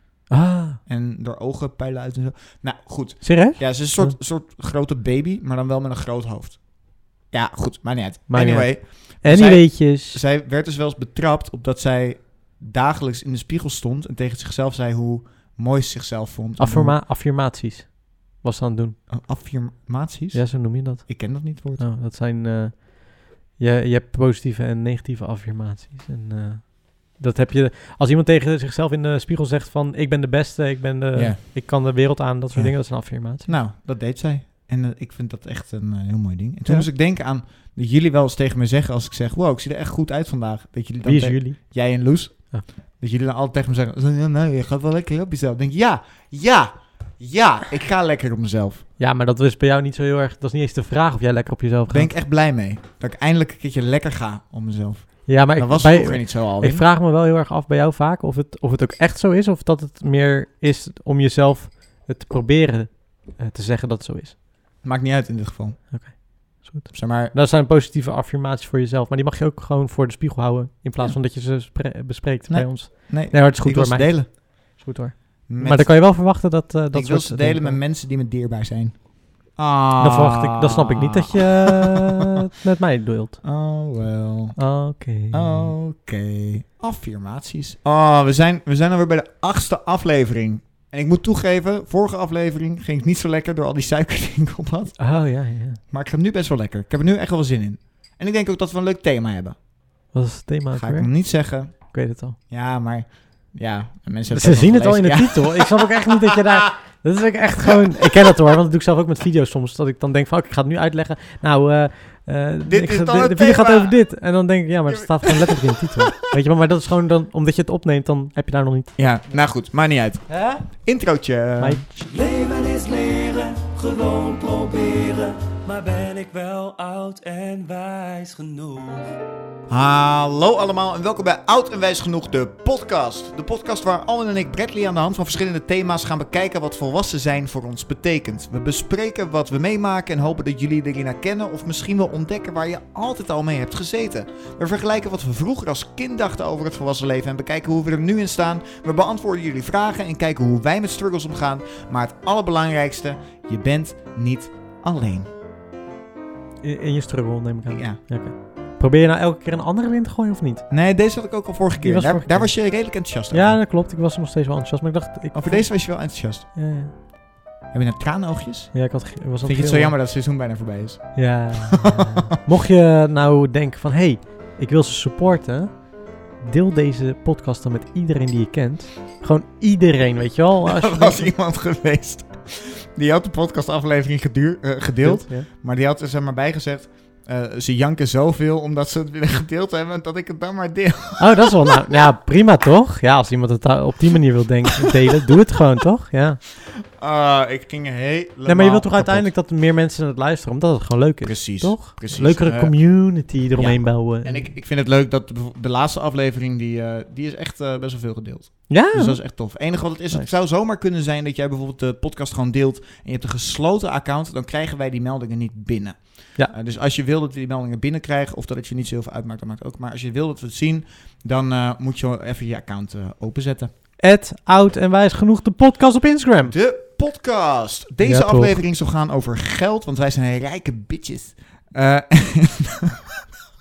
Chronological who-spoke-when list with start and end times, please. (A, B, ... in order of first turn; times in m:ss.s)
0:00.3-0:00.8 A
0:00.9-0:17.0 B
0:03.2-0:04.2 A
0:08.3-0:10.2 A
0:16.6-0:19.0 A
0:19.1-0:21.9 B
0:20.3-0:33.5 A
0:32.5-0:48.8 B
0:41.0-0:41.7 A
0:49.0-0:52.1 A
0:51.9-0:56.8 B
0:55.3-1:04.4 A
1:04.8-1:06.1 B
1:05.9-1:17.8 A
1:06.9-1:07.3 B
1:12.5-1:14.3 B
1:15.5-1:21.7 B
1:20.0-1:23.4 A
1:23.4-1:24.7 B
1:24.6-1:25.7 A
1:25.3-1:35.1 B
1:35.0-1:35.8 A
1:35.9-1:39.6 B
1:40.1-1:41.1 A
1:40.8-1:41.9 B
1:41.7-1:42.4 A
1:42.5-1:46.4 B
1:44.3-1:59.0 A
1:52.7-1:54.0 B
1:54.9-1:56.2 B
1:59.0-2:01.9 B
2:00.3-2:00.6 A
2:01.6-2:01.9 A
2:02.1-2:09.1 C
2:09.7-2:35.3 B
2:36.6-2:40.7 A
2:37.7-2:38.0 B
2:40.7-2:43.6 B
2:41.8-2:46.0 A
2:45.3-2:46.5 B
2:46.5-2:46.9 A
2:47.7-2:52.3 B
2:48.7-2:49.9 A
2:51.2-3:01.3 A
3:00.7-3:12.0 B
3:05.0-3:05.5 A
3:11.2-3:16.4 A
3:17.0-3:19.3 B
3:18.5-3:24.5 A
3:21.2-3:22.9 B
3:23.5-3:43.7 B
3:28.7-3:29.2 A
3:44.0-3:46.5 A
3:46.4-3:53.0 B
3:48.0-3:48.5 A